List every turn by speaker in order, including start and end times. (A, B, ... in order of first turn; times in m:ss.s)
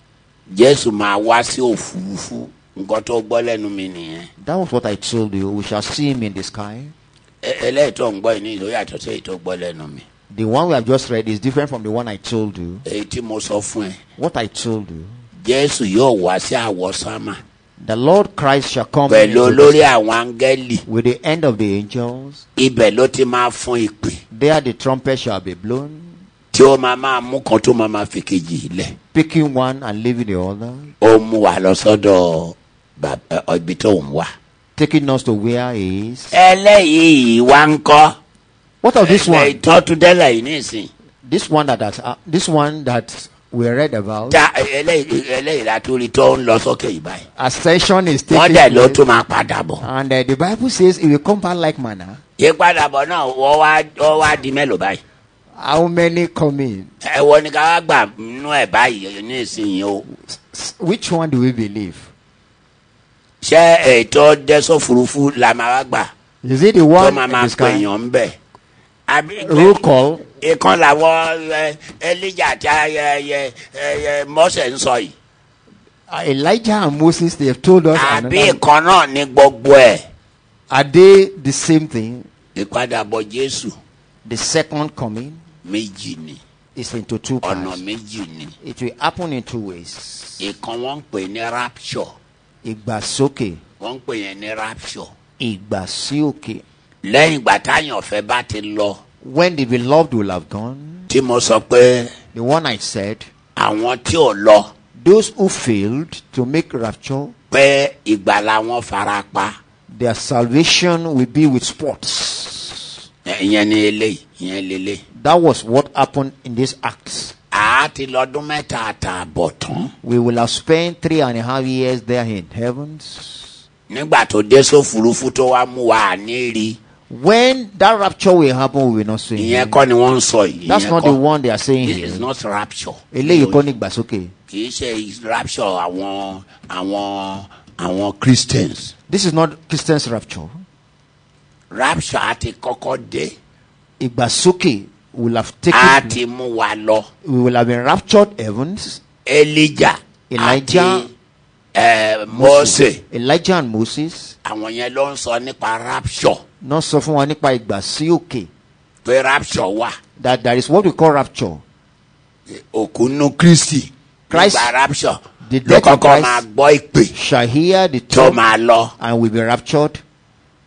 0:00.5-0:04.3 A
0:04.4-0:06.9 B
0:07.4-0:10.0 A
0:10.3-0:12.8 B
0:12.8-0:14.0 A
0:14.2-0:15.2 B
0:15.4-0:17.4 A
0:17.8-0:19.8 B
0:19.1-0:20.8 A
0:20.9-0:22.4 B
0:22.6-0:24.2 A
0:24.3-0:26.2 B
0:26.5-0:28.9 A
0:29.1-0:30.9 B
0:31.0-0:34.3 A
0:34.8-0:36.4 B
0:36.3-0:38.1 A
0:38.8-0:39.6 B
0:39.0-0:40.9 A
0:41.2-0:44.4 B
0:44.3-0:47.2 A
0:47.4-0:49.0 B
0:48.3-0:49.8 A
0:49.8-0:52.2 B
0:52.4-0:55.0 A
0:55.6-0:56.9 B
0:57.0-1:00.0 A
1:00.0-1:02.1 B
1:03.4-1:06.1 A
1:06.4-1:07.9 B
1:07.0-1:08.3 A
1:09.1-1:09.8 A
1:09.4-1:10.2 B
1:10.4-1:15.1 A
1:16.1-1:18.6 B
1:17.9-1:20.0 A
1:20.7-1:22.3 B
1:22.5-1:23.7 A
1:24.2-1:25.4 B
1:25.6-1:26.4 A
1:26.7-1:27.8 B
1:27.4-1:28.5 A
1:28.6-1:30.5 B
1:30.4-1:32.1 A
1:32.6-1:33.6 B
1:33.8-1:35.1 A
1:35.4-1:36.6 B
1:37.0-1:39.0 A
1:39.2-1:41.1 B
1:41.1-1:42.1 A
1:42.3-1:43.2 B
1:43.6-1:44.7 A
1:45.0-1:47.3 B
1:47.5-1:49.5 A
1:49.9-1:53.0 B
1:53.2-1:55.0 A
1:55.2-1:57.3 B
1:57.5-1:59.9 A
2:00.0-2:03.5 B
2:03.9-2:06.8 A
2:07.1-2:09.8 B
2:09.4-2:11.2 A
2:10.7-2:12.3 B
2:11.8-2:13.7 A
2:13.1-2:14.3 B
2:14.5-2:18.9 A
2:19.1-2:20.6 B
2:21.7-2:23.3 A
2:24.0-2:26.2 B
2:25.7-2:27.1 A
2:27.2-2:29.0 B
2:29.2-2:31.1 A
2:30.3-2:31.1 B
2:31.7-2:33.0 A
2:32.3-2:34.3 B
2:34.4-2:36.4 A
2:36.6-2:38.5 B
2:39.0-2:39.9 A
2:40.2-2:41.6 B
2:42.5-2:47.1 A
2:44.3-2:44.7 B
2:45.4-2:46.4 B
2:47.1-2:48.4 B
2:48.1-2:48.9 A
2:49.0-2:50.0 B